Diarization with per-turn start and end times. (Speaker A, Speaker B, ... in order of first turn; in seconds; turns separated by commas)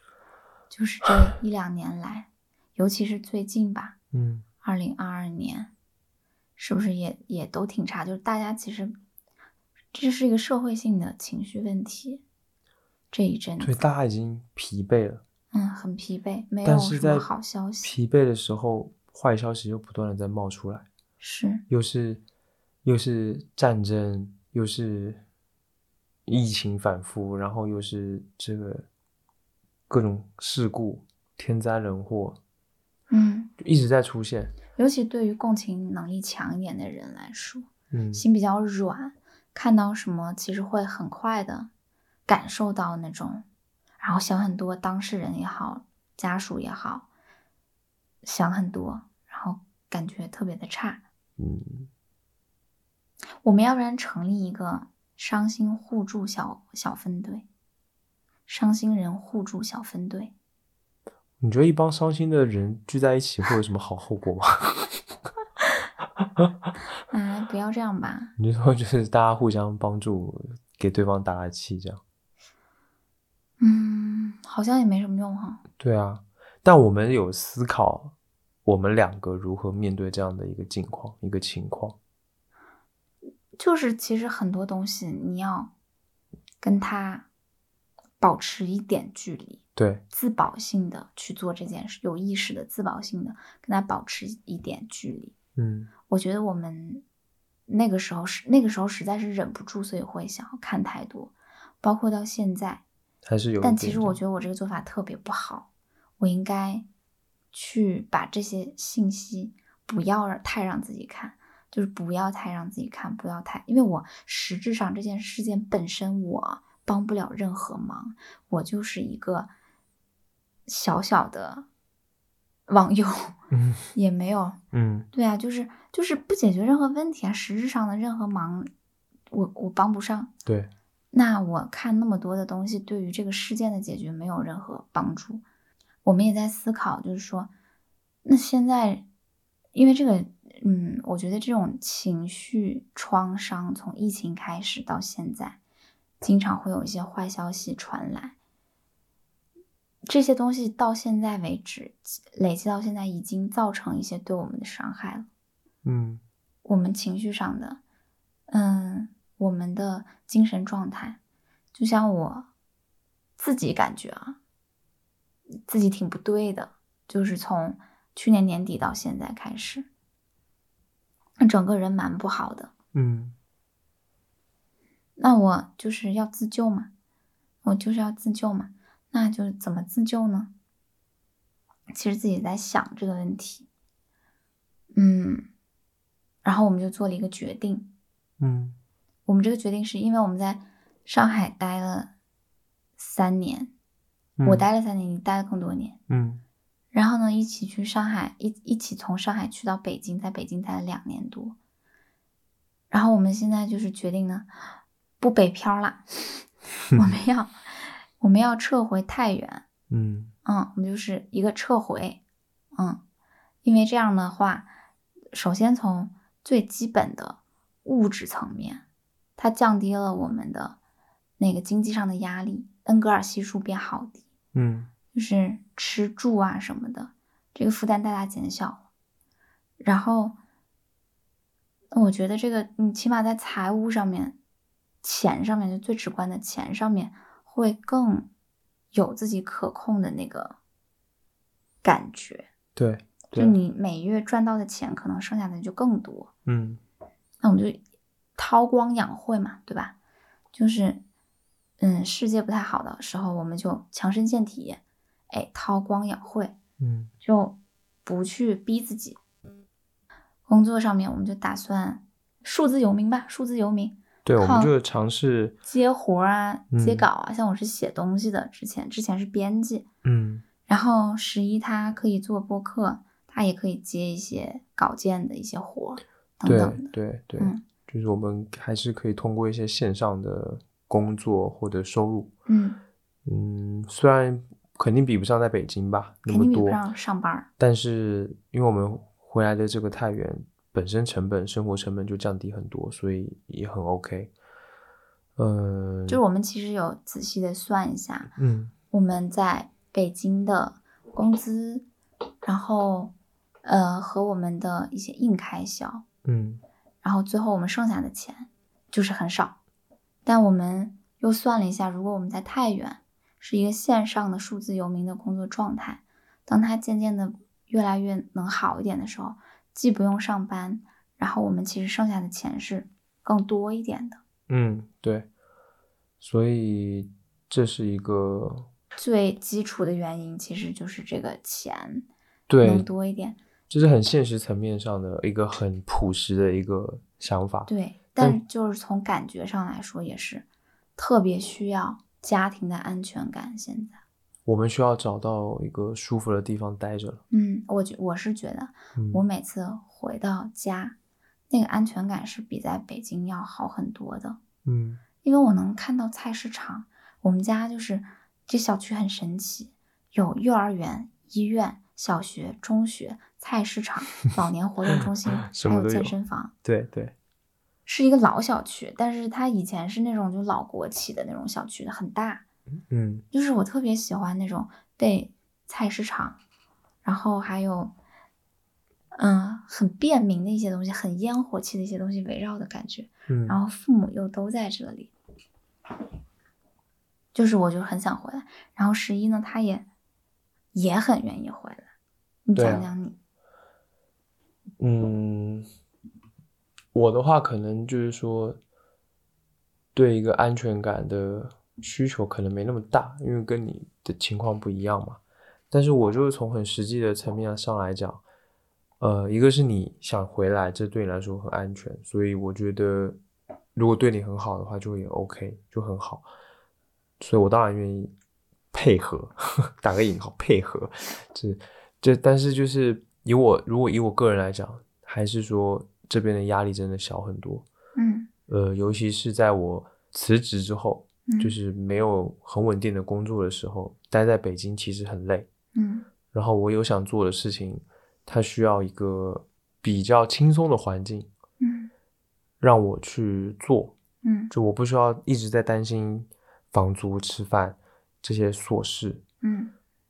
Speaker A: 0.7-4.0, Speaker B: 4.1-4.4, Speaker A: 4.6-5.7, Speaker A: 6.6-8.9, Speaker A: 9.9-12.2, Speaker A: 13.1-13.8, Speaker B: 13.6-15.2, Speaker A: 15.5-17.9, Speaker B: 16.6-17.3, Speaker B: 17.8-20.9, Speaker A: 21.2-21.6, Speaker B: 21.7-22.2, Speaker B: 22.8-25.2, Speaker B: 26.2-28.9, Speaker B: 29.9-32.4, Speaker A: 33.1-33.5, Speaker B: 33.6-34.5, Speaker A: 34.8-41.7, Speaker B: 37.9-38.2, Speaker A: 42.3-43.4, Speaker A: 44.0-47.1, Speaker A: 48.2-51.0, Speaker B: 51.4-51.9, Speaker A: 53.4-57.5, Speaker A: 58.5-60.3, Speaker B: 61.4-64.9, Speaker B: 66.2-66.5, Speaker A: 67.1-68.3, Speaker B: 68.4-72.0, Speaker A: 73.6-75.6, Speaker B: 75.8-78.1, Speaker B: 78.6-82.0, Speaker A: 83.6-85.7, Speaker A: 86.6-87.3, Speaker A: 88.2-95.3, Speaker B: 89.8-90.0, Speaker B: 95.5-95.9, Speaker A: 96.1-97.0, Speaker A: 97.7-102.8, Speaker B: 103.2-104.2, Speaker A: 103.6-105.7, Speaker A: 106.2-106.8, Speaker A: 107.5-119.5, Speaker A: 120.7-121.7, Speaker A: 122.7-123.3, Speaker B: 123.5-123.8, Speaker A: 123.9-124.6, Speaker B: 124.7-125.1, Speaker A: 125.1-128.7, Speaker A: 129.3-130.3, Speaker B: 130.4-130.7, Speaker A: 131.1-135.4, Speaker A: 136.0-137.5, Speaker A: 138.2-139.0, Speaker A: 139.7-145.6, Speaker A: 146.2-148.3, Speaker A: 150.1-155.3, Speaker B: 155.8-156.2, Speaker A: 156.6-157.8, Speaker A: 158.5-161.2, Speaker A: 161.7-162.5, Speaker A: 163.4-164.4, Speaker A: 165.7-169.9, Speaker A: 171.4-172.7, Speaker B: 172.9-173.3, Speaker A: 175.2-176.9, Speaker A: 177.6-180.5, Speaker A: 181.9-183.7, Speaker A: 184.9-185.5, Speaker A: 186.4-187.9, Speaker B: 188.4-188.8, Speaker A: 189.2-192.1, Speaker A: 193.0-193.7, Speaker B: 194.4-194.7, Speaker A: 194.4-196.0, Speaker B: 196.1-196.4, Speaker A: 196.9-201.6, Speaker A: 202.9-204.5, Speaker A: 205.2-209.6, Speaker B: 209.9-210.3, Speaker A: 210.4-212.2, Speaker A: 213.6-214.7, Speaker A: 215.3-218.8, Speaker A: 219.4-220.8, Speaker A: 221.4-224.2, Speaker B: 224.5-224.9, Speaker A: 225.1-228.8, Speaker A: 229.8-230.4, Speaker A: 231.9-234.4, Speaker A: 235.0-238.3, Speaker A: 238.9-240.6, Speaker A: 241.8-242.5, Speaker B: 242.8-243.6, Speaker A: 243.3-246.3, Speaker B: 246.4-246.8, Speaker A: 247.4-247.8, Speaker A: 248.4-249.9, Speaker A: 250.5-251.0, Speaker A: 251.8-256.5, Speaker B: 256.8-257.1, Speaker A: 257.2-259.2, Speaker A: 260.5-264.7, Speaker B: 264.2-265.6, Speaker A: 265.6-269.9, Speaker B: 266.7-267.1, Speaker B: 270.0-270.4, Speaker A: 270.7-277.6, Speaker B: 276.4-282.3, Speaker A: 282.5-282.8, Speaker B: 283.2-286.8, Speaker A: 286.3-287.5, Speaker B: 287.6-294.3, Speaker B: 295.4-296.2, Speaker A: 296.1-298.3, Speaker B: 298.4-298.7, Speaker A: 298.9-301.9, Speaker A: 302.4-303.1, Speaker A: 303.6-306.0, Speaker B: 306.2-306.6, Speaker A: 307.0-309.6, Speaker A: 310.2-324.2, Speaker B: 324.5-325.3, Speaker B: 326.2-328.7, Speaker A: 329.0-332.1, Speaker B: 332.5-332.9, Speaker A: 332.6-333.4, Speaker B: 333.7-338.4, Speaker A: 337.7-340.4, Speaker A: 341.0-344.0, Speaker B: 344.4-347.2, Speaker A: 347.3-350.9, Speaker B: 348.9-349.2, Speaker A: 351.5-354.4, Speaker B: 354.6-355.0, Speaker A: 355.2-366.5, Speaker B: 365.4-367.1, Speaker A: 367.9-372.4, Speaker B: 372.9-373.2, Speaker A: 373.3-376.4, Speaker A: 377.0-377.9, Speaker A: 379.1-385.1, Speaker B: 383.3-383.6, Speaker A: 387.3-389.9, Speaker A: 390.7-391.9, Speaker A: 392.4-393.1, Speaker B: 392.6-392.9, Speaker B: 394.8-395.6, Speaker B: 396.9-398.6, Speaker B: 399.9-405.2, Speaker B: 405.7-408.2, Speaker B: 409.0-413.2, Speaker B: 413.7-416.2, Speaker B: 417.2-418.1, Speaker B: 418.7-427.7, Speaker A: 427.9-428.3, Speaker B: 428.5-435.5, Speaker A: 431.3-431.6, Speaker A: 435.7-436.1, Speaker B: 436.3-441.3, Speaker A: 441.6-441.9, Speaker B: 442.6-443.9, Speaker A: 444.2-444.5, Speaker B: 444.5-449.2, Speaker A: 449.4-449.7